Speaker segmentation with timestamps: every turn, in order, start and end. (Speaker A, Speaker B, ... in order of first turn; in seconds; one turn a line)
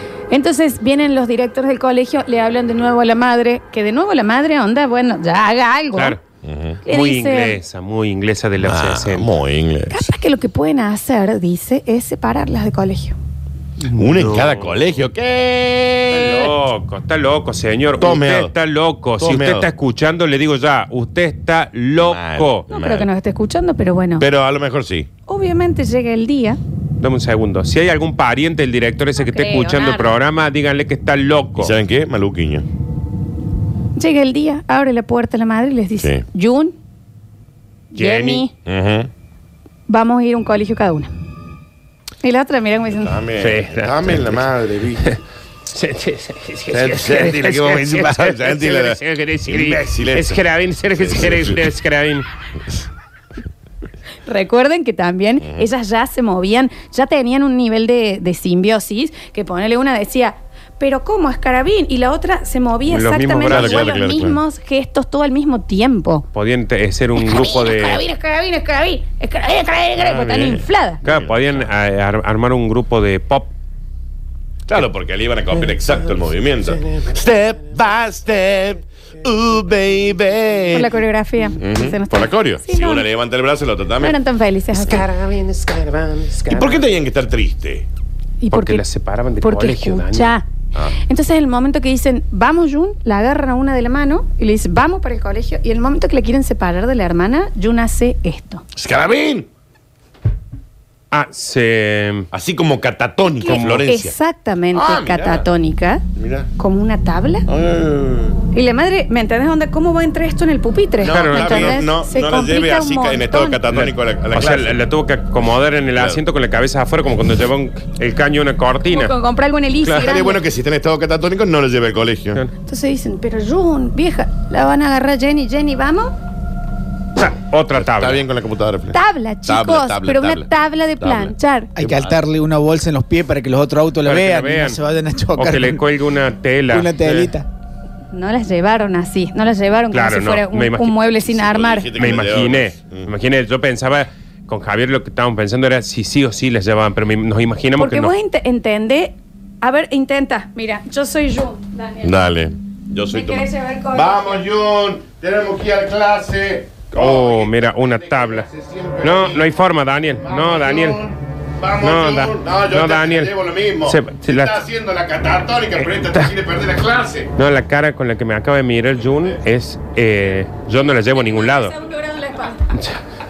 Speaker A: 0.3-6.2
Speaker B: 5.9-6.2
Speaker C: 6.4-6.8
Speaker A: 6.8-7.6
Speaker B: 6.8-9.3
Speaker C: 8.6-10.1
Speaker A: 9.9-13.2
Speaker B: 13.8-14.8
Speaker C: 13.9-16.5
Speaker B: 16.1-22.6
Speaker C: 18.0-18.5
Speaker C: 19.2-19.7
Speaker C: 22.0-23.1
Speaker A: 22.7-24.2
Speaker C: 24.2-25.1
Speaker A: 25.3-26.6
Speaker B: 27.0-31.7
Speaker A: 29.2-30.1
Speaker C: 31.6-32.6
Speaker A: 34.0-36.7
Speaker C: 36.0-36.2
Speaker A: 37.9-38.5
Speaker B: 37.9-38.4
Speaker C: 38.6-39.1
Speaker A: 39.9-41.1
Speaker A: 42.2-43.1
Speaker C: 42.9-45.1
Speaker B: 43.4-44.4
Speaker B: 45.7-52.2
Speaker C: 46.7-50.4
Speaker C: 50.9-51.6
Speaker A: 54.3-66.2
Speaker C: 55.4-55.7
Speaker B: 62.9-63.9
Speaker C: 63.5-64.4
Speaker B: 66.3-68.0
Speaker A: 67.2-71.0
Speaker B: 70.1-73.5
Speaker C: 71.0-71.6
Speaker C: 74.7-81.0
Speaker A: 80.7-83.0
Speaker C: 81.6-84.2
Speaker A: 84.0-85.0
Speaker B: 84.7-86.8
Speaker C: 86.5-87.9
Speaker A: 88.4-88.8
Speaker B: 88.5-90.3
Speaker A: 89.4-90.5
Speaker A: 91.1-98.6
Speaker C: 98.7-99.5
Speaker B: 101.1-102.3
Speaker C: 102.3-104.1
Speaker A: 103.4-106.0
Speaker B: 103.5-103.8
Speaker C: 104.7-105.5
Speaker C: 106.1-106.5
Speaker A: 106.6-107.5
Speaker C: 107.5-108.4
Speaker A: 108.5-113.6
Speaker C: 111.0-114.8
Speaker B: 111.1-111.8
Speaker B: 113.7-119.1
Speaker C: 115.4-116.2
Speaker A: 118.9-120.4
Speaker C: 119.9-122.4
Speaker A: 122.6-126.1
Speaker B: 127.2-128.2
Speaker C: 127.7-132.2
Speaker A: 128.9-131.7
Speaker D: 131.8-135.8
Speaker B: 134.0-134.8
Speaker B: 135.3-137.3
Speaker D: 136.7-137.4
Speaker A: 138.1-141.9
Speaker B: 139.9-141.0
Speaker C: 141.2-143.1
Speaker B: 142.0-148.1
Speaker A: 147.8-152.1
Speaker C: 152.0-159.4
Speaker A: 153.1-154.4
Speaker B: 156.9-158.5
Speaker B: 159.0-161.0
Speaker C: 160.2-167.3
Speaker B: 161.8-163.3
Speaker B: 163.8-164.6
Speaker B: 165.8-166.3
Speaker B: 167.4-171.8
Speaker A: 171.1-172.8
Speaker B: 172.7-173.0